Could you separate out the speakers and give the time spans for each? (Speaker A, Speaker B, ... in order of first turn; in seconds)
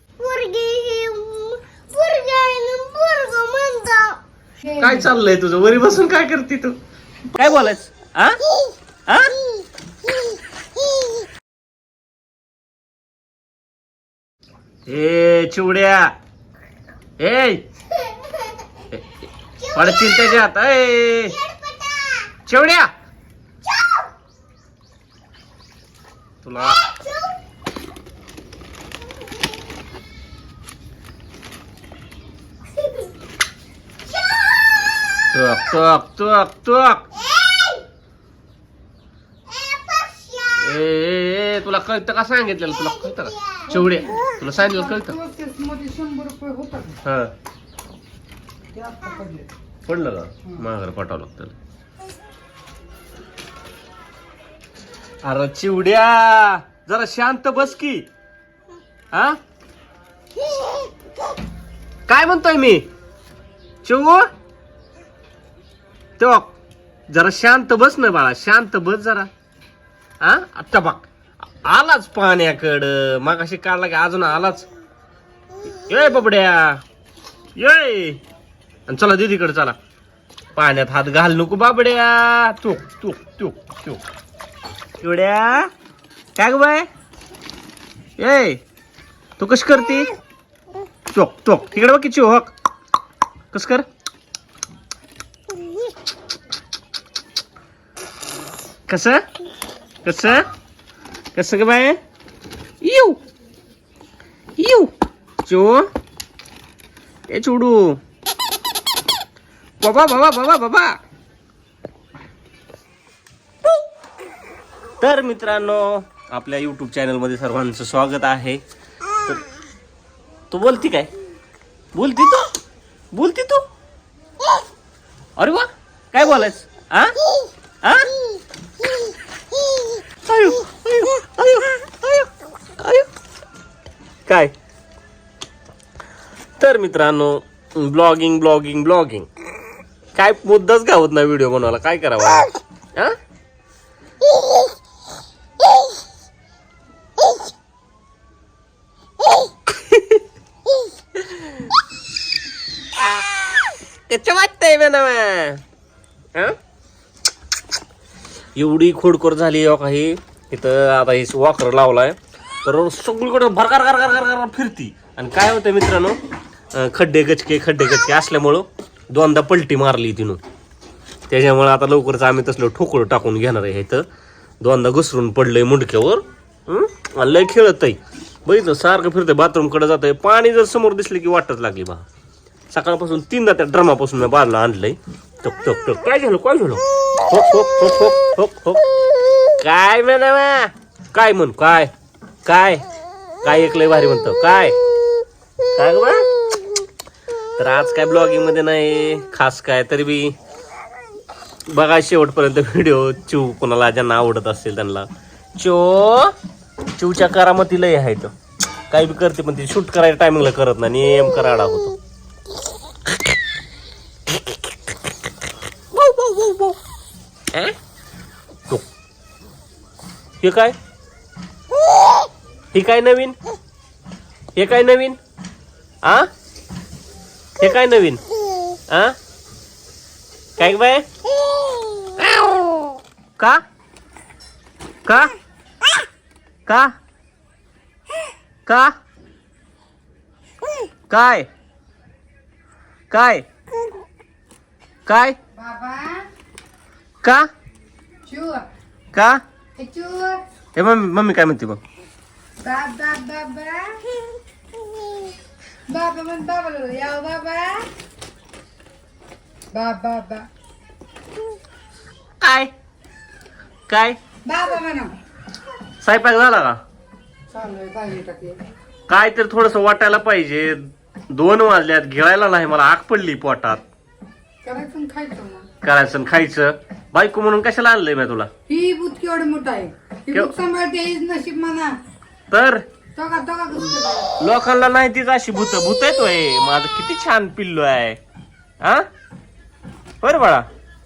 Speaker A: 0.2-4.2, 19.6-20.4, 21.3-22.3, 23.7-24.1, 26.7-27.4, 34.1-35.0, 37.4-37.8, 39.5-40.7, 42.9-44.2
Speaker B: 4.6-5.1, 43.7-47.0, 48.7-49.5, 245.6-246.2, 248.2-248.7, 249.8-250.4, 252.6-254.0, 255.9-257.9, 259.7-260.4, 264.4-265.1, 267.5-268.6, 274.6-275.7, 278.7-281.9, 283.1-284.3
Speaker C: 4.8-6.8, 7.3-8.4, 9.1-9.3, 14.9-16.1, 17.2-17.6, 19.7-21.4, 22.4-22.9, 26.4-26.8, 35.3-37.0, 40.6-45.1, 47.0-47.3, 49.9-51.5, 55.2-58.1, 59.1-59.4, 62.1-62.9, 63.8-64.3, 66.2-66.5, 67.1-69.3, 70.2-71.0, 71.6-74.7, 75.7-76.8, 77.6-78.2, 78.9-79.8, 80.5-84.0, 85.0-85.7, 86.4-86.9, 88.2-88.6, 89.4-90.1, 91.1-92.5, 93.5-93.8, 98.9-99.2, 100.0-100.5, 101.3-102.0, 102.8-103.2, 104.6-104.9, 105.4-105.9, 107.3-108.0, 109.8-111.0, 115.0-118.6, 120.5-121.1, 121.9-122.5, 123.1-123.7, 125.4-127.2, 127.8-128.1, 130.2-133.1, 134.3-134.5, 136.6-139.3, 140.1-143.2, 149.8-150.2, 151.2-151.5, 153.0-153.2, 154.1-155.6, 158.6-166.2, 166.7-170.4, 171.3-174.0, 174.6-182.1, 182.7-188.8, 189.6-191.9, 192.4-192.8, 193.4-194.8, 195.7-196.3, 197.6-200.3, 201.7-206.3, 207.0-208.3, 208.9-212.0, 215.9-216.8, 220.4-220.8, 222.7-223.3, 224.6-225.2, 226.0-226.3, 227.6-228.2, 228.9-229.2, 230.6-231.1, 232.2-232.8, 233.4-233.6, 235.0-235.3, 236.7-236.9, 238.7-238.9, 241.1-241.5, 243.1-243.4, 245.1-245.3, 247.2-247.5, 249.1-249.4, 250.8-251.8, 262.4-262.7, 263.9-264.2, 266.0-266.8, 269.1-273.8, 275.8-278.5, 282.5-282.8, 284.3-288.2, 288.8-289.1, 290.2-290.7